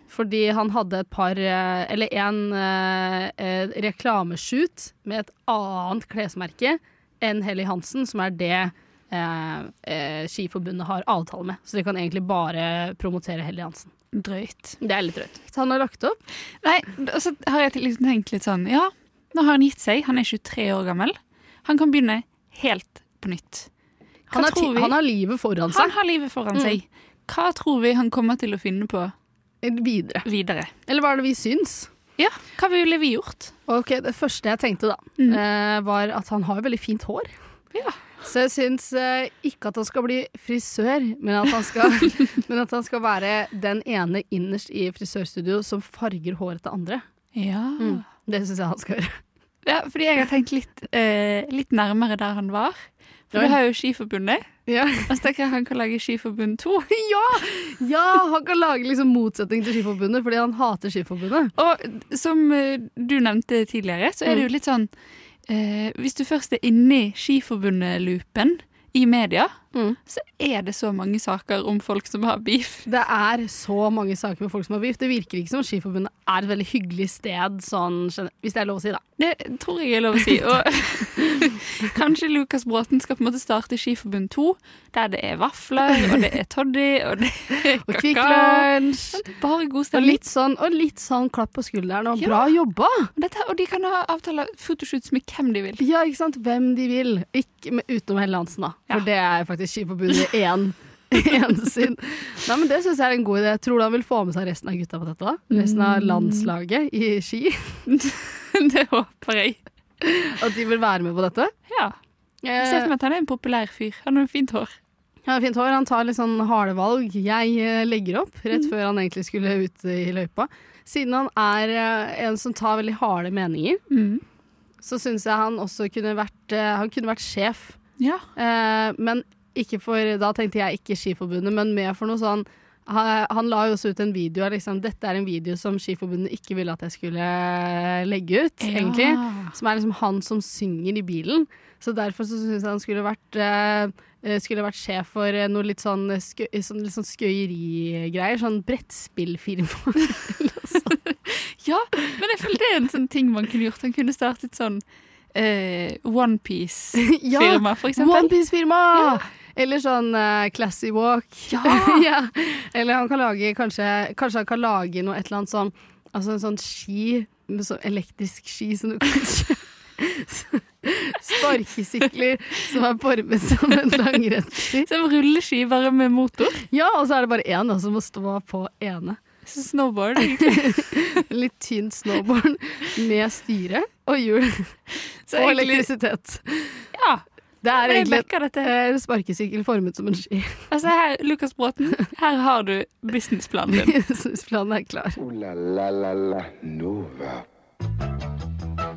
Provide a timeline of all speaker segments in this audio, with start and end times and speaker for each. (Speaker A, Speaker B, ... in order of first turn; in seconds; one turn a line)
Speaker A: 0.1-13.9
Speaker B: 14.1-14.8
Speaker A: 14.8-16.2
Speaker B: 16.6-23.7
Speaker B: 24.3-25.0
Speaker A: 24.3-26.0
Speaker B: 25.7-29.1
Speaker A: 29.6-30.3
Speaker B: 30.2-30.7
Speaker A: 30.9-31.9
Speaker B: 32.2-33.5
Speaker A: 33.7-37.3
Speaker B: 37.7-38.1
Speaker A: 38.2-47.0
Speaker B: 47.3-48.1
Speaker A: 47.8-49.1
Speaker B: 49.6-54.5
Speaker A: 53.3-53.6
Speaker A: 54.7-55.2
Speaker B: 55.1-56.9
Speaker A: 56.9-61.5
Speaker B: 61.5-64.9
Speaker B: 65.5-69.5
Speaker B: 70.0-72.9
Speaker A: 72.9-79.0
Speaker B: 79.2-90.2
Speaker A: 87.8-89.2
Speaker A: 89.9-93.1
Speaker B: 92.2-92.5
Speaker B: 93.2-95.8
Speaker A: 95.8-107.8
Speaker B: 105.5-106.5
Speaker B: 107.9-109.6
Speaker A: 110.0-111.5
Speaker B: 111.7-112.0
Speaker A: 112.4-112.9
Speaker B: 112.6-114.7
Speaker A: 115.3-123.8
Speaker B: 123.9-124.2
Speaker A: 124.8-127.8
Speaker B: 128.0-128.3
Speaker A: 128.4-150.9
Speaker B: 138.6-139.5
Speaker B: 150.8-154.8
Speaker B: 155.3-158.3
Speaker A: 157.0-174.9
Speaker B: 158.9-159.2
Speaker B: 161.5-162.1
Speaker B: 174.8-176.6
Speaker A: 176.7-179.2
Speaker B: 179.4-181.2
Speaker A: 180.4-184.7
Speaker B: 185.3-185.9
Speaker A: 185.3-186.9
Speaker B: 186.9-188.7
Speaker A: 187.6-190.7
Speaker B: 190.7-194.0
Speaker A: 193.8-195.2
Speaker C: 195.2-197.5